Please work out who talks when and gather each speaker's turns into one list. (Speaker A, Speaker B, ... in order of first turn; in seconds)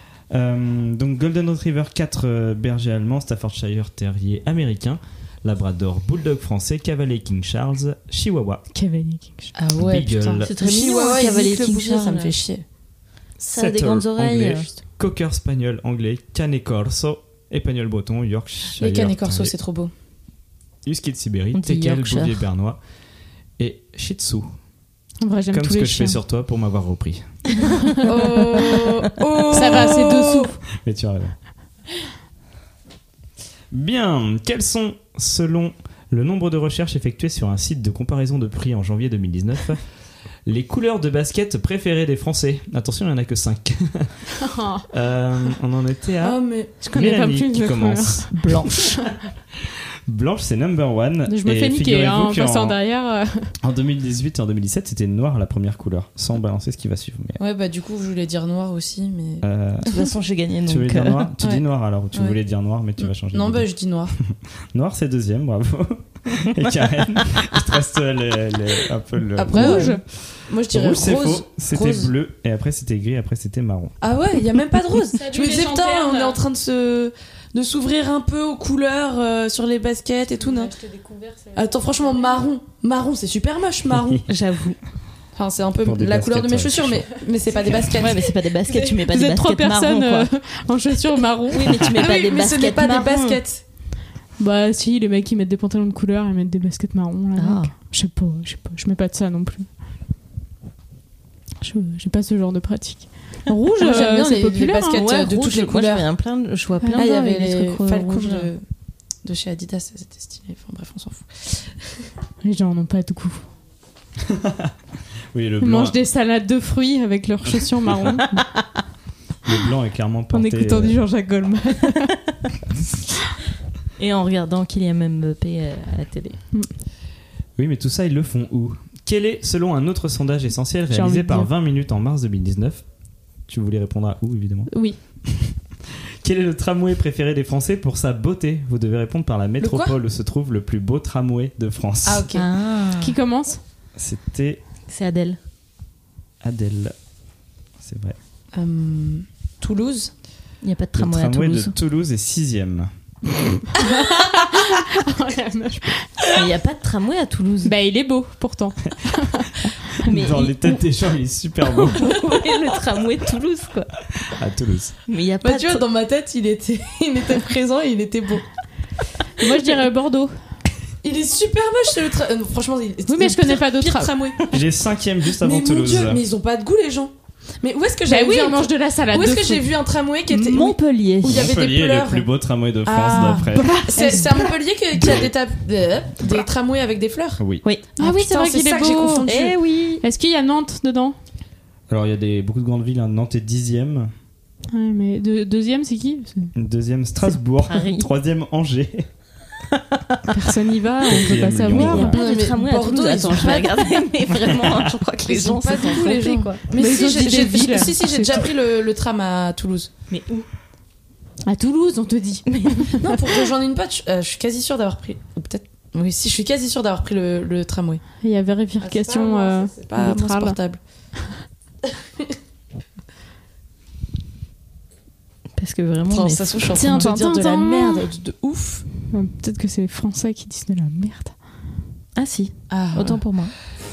Speaker A: 0.3-8.6, 9.8-10.5, 13.4-19.6, 20.8-22.8, 23.6-24.6, 25.5-27.5, 30.7-31.4, 33.7-39.8, 40.5-44.3, 44.9-48.9, 49.6-52.8, 53.6-57.4, 59.4-60.0, 60.7-63.7, 64.2-70.0, 70.6-74.0, 83.9-84.2, 85.8-87.1, 114.2-114.7, 115.3-116.0, 117.8-118.2, 119.5-121.0, 127.6-132.8, 133.5-134.7, 135.2-135.6, 136.2-142.3, 144.0-144.6, 146.4-146.9, 147.8-148.2, 150.9-152.9, 160.0-162.2, 164.2-164.9, 174.5-176.2, 181.3-183.7, 185.0-185.3, 191.9-194.1, 196.6-199.1, 201.1-202.2, 204.3-204.9
Speaker B: 8.7-9.5, 25.2-26.2, 27.8-28.1, 29.5-30.6, 44.4-44.9, 46.8-49.1, 51.3-53.5, 69.5-70.0, 75.1-76.4, 80.4-82.5, 88.7-91.7, 94.4-99.7, 101.6-105.1, 106.8-107.1, 112.4-113.4, 115.6-118.4, 120.3-122.2, 130.9-131.5, 134.7-135.0, 143.0-143.6, 153.8-156.2, 157.7-159.5, 169.4-170.3, 173.1-174.2, 178.1-179.7, 183.3-184.4, 188.0-189.3, 190.0-191.2, 194.7-196.5, 200.3-202.2, 206.7-208.4, 211.5-213.0, 218.2-220.6, 226.7-228.1, 229.1-231.3
Speaker C: 9.6-12.6, 18.8-19.9, 28.0-30.5, 46.2-46.7, 57.4-59.5, 61.4-62.4, 63.0-64.2, 69.4-72.1, 74.0-80.7, 81.6-84.2, 85.4-88.3, 91.8-93.6, 103.8-106.1, 107.0-108.6, 109.2-111.8, 139.6-139.9, 142.0-142.5, 148.5-150.1, 165.4-168.4, 171.0-174.5, 175.3-182.3, 182.8-187.4, 188.0-189.6, 202.0-204.0, 205.3-209.9, 213.0-218.0, 218.8-220.8, 226.1-228.8, 232.7-233.2
Speaker D: 10.4-12.4, 13.4-14.7, 21.5-22.4, 48.3-48.8, 59.9-61.3, 84.3-84.8, 87.8-90.3, 91.5-93.4, 97.4-97.7, 104.9-108.5, 124.0-126.4, 142.3-143.2, 144.9-145.4, 150.6-151.7, 156.3-157.7, 160.0-160.8, 161.8-163.9, 165.1-165.8, 180.3-181.5, 189.3-190.0, 197.7-198.1, 201.7-206.6, 210.1-210.5, 212.5-213.0, 225.6-228.1, 232.2-233.5